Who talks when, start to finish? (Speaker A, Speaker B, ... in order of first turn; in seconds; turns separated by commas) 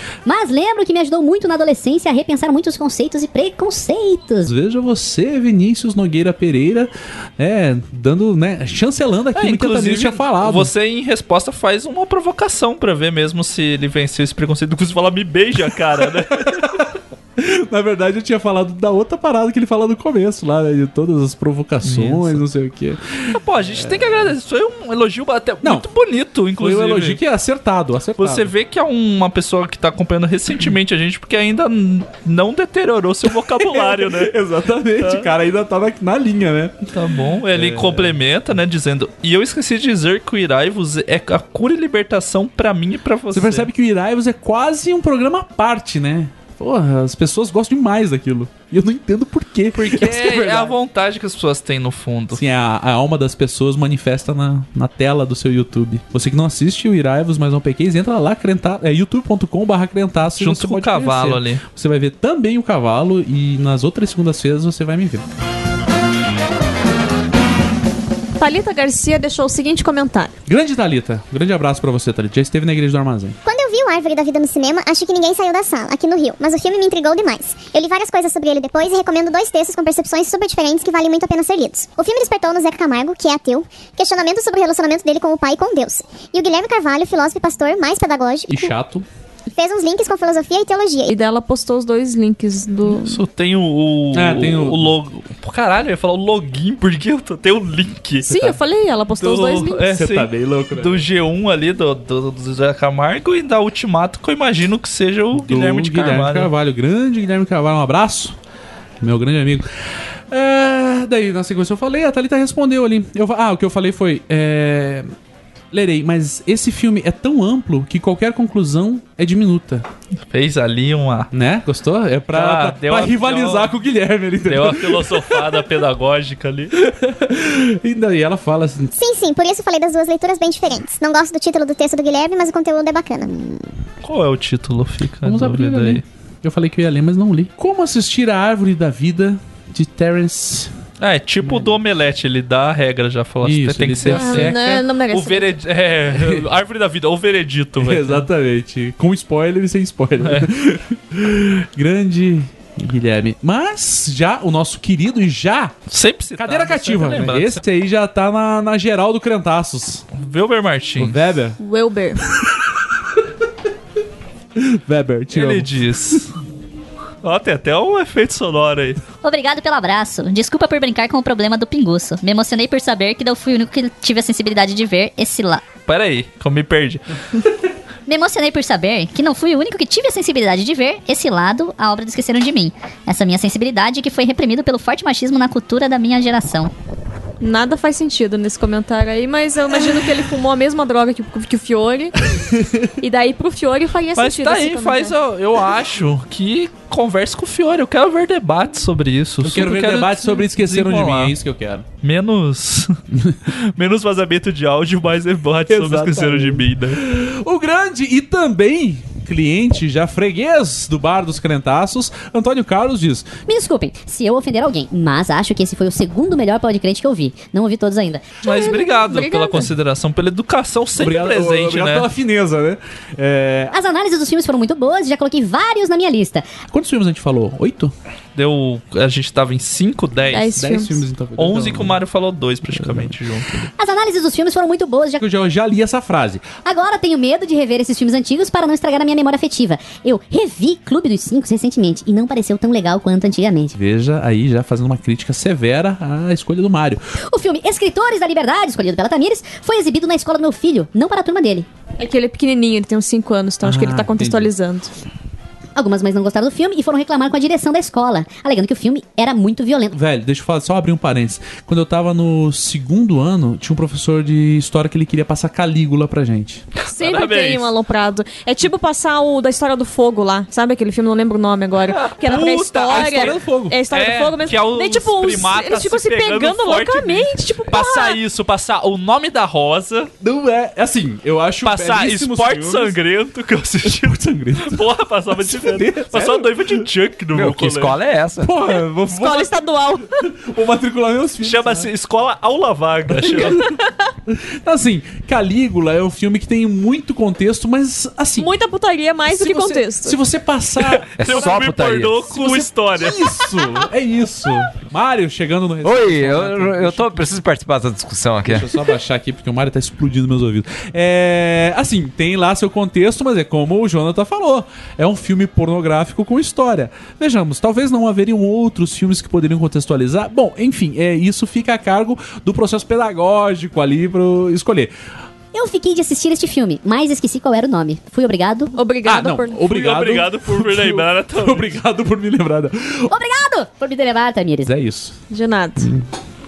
Speaker A: 0.2-4.5, Speaker B: 4.4-10.7, Speaker C: 9.3-16.8, Speaker B: 16.0-24.2, Speaker C: 21.8-22.4, Speaker C: 23.3-27.2, Speaker B: 25.6-25.9, Speaker B: 26.6-28.5, Speaker C: 28.2-34.3, Speaker B: 33.3-36.9, Speaker C: 35.0-35.3, Speaker C: 36.9-43.7, Speaker B: 37.5-38.2, Speaker B: 43.3-50.7, Speaker C: 49.7-52.4, Speaker B: 52.3-65.2, Speaker C: 60.4-61.6, Speaker D: 68.4-70.3, Speaker B: 70.5-73.4, Speaker E: 73.4-88.7, Speaker B: 88.5-89.0, Speaker E: 89.5-91.1, Speaker D: 91.1-93.2, Speaker C: 93.0-98.3, Speaker B: 94.1-94.9, Speaker D: 98.3-99.8, Speaker B: 98.3-98.5, Speaker C: 99.2-106.5, Speaker B: 99.8-101.0, Speaker B: 105.3-108.3, Speaker B: 109.0-109.7, Speaker B: 110.3-115.1, Speaker B: 115.7-119.9, Speaker C: 120.3-121.3, Speaker B: 121.3-125.7, Speaker C: 122.3-123.7, Speaker C: 124.4-126.7, Speaker B: 126.7-128.9, Speaker E: 128.9-133.7, Speaker C: 134.0-136.0, Speaker B: 135.2-140.7, Speaker C: 141.0-148.2, Speaker B: 141.4-141.7, Speaker B: 143.4-144.8, Speaker D: 144.1-145.5, Speaker B: 146.1-146.5, Speaker B: 147.8-155.8, Speaker C: 150.2-150.5, Speaker C: 155.9-157.6, Speaker B: 156.4-160.0, Speaker C: 160.1-161.2, Speaker B: 161.0-161.6, Speaker D: 161.6-162.2, Speaker B: 162.3-162.8, Speaker B: 164.6-166.2, Speaker C: 165.3-166.3, Speaker C: 167.2-169.0, Speaker F: 169.2-175.6, Speaker C: 175.9-177.0, Speaker F: 178.1-186.7, Speaker D: 187.4-192.2, Speaker B: 192.4-192.9, Speaker D: 193.0-195.1, Speaker C: 194.2-201.3, Speaker B: 199.4-201.8, Speaker C: 202.0-202.9, Speaker C: 203.5-207.0, Speaker B: 205.7-213.4, Speaker A: 213.4-218.2, Speaker D: 218.4-219.7, Speaker C: 218.4-222.1, Speaker B: 221.0-223.7, Speaker A: 223.7-226.5, Speaker B: 226.7-227.9, Speaker C: 228.3-230.6, Speaker D: 230.3-231.0, Speaker B: 230.6-232.0, Speaker C: 231.4-233.7, Speaker B: 232.7-233.1, Speaker A: 233.8-235.2, Speaker B: 235.2-236.6, Speaker A: 236.6-243.8, Speaker B: 243.8-247.0, Speaker A: 247.3-251.7, Speaker D: 252.0-254.9, Speaker B: 253.6-254.5, Speaker A: 255.7-259.9, Speaker B: 259.9-266.6, Speaker D: 266.9-278.2, Speaker C: 266.9-267.7, Speaker C: 271.9-273.4, Speaker B: 272.9-273.8, Speaker C: 273.9-280.1, Speaker B: 280.2-283.0, Speaker C: 281.6-287.9, Speaker B: 283.8-286.9, Speaker G: 287.3-288.5, Speaker B: 288.4-291.9, Speaker D: 289.1-290.1, Speaker C: 291.4-293.6, Speaker B: 293.1-293.7, Speaker D: 293.5-293.7, Speaker B: 294.3-298.5, Speaker D: 298.4-300.2, Speaker B: 299.3-301.6, Speaker C: 300.8-303.3, Speaker G: 301.2-302.2, Speaker B: 302.4-307.3, Speaker G: 305.8-308.7, Speaker B: 308.4-324.9, Speaker A: 325.5-328.7, Speaker D: 328.7-329.6, Speaker B: 329.0-333.1, Speaker C: 329.7-331.8, Speaker A: 333.1-334.7, Speaker B: 334.6-335.2, Speaker D: 335.3-335.9, Speaker B: 335.8-336.1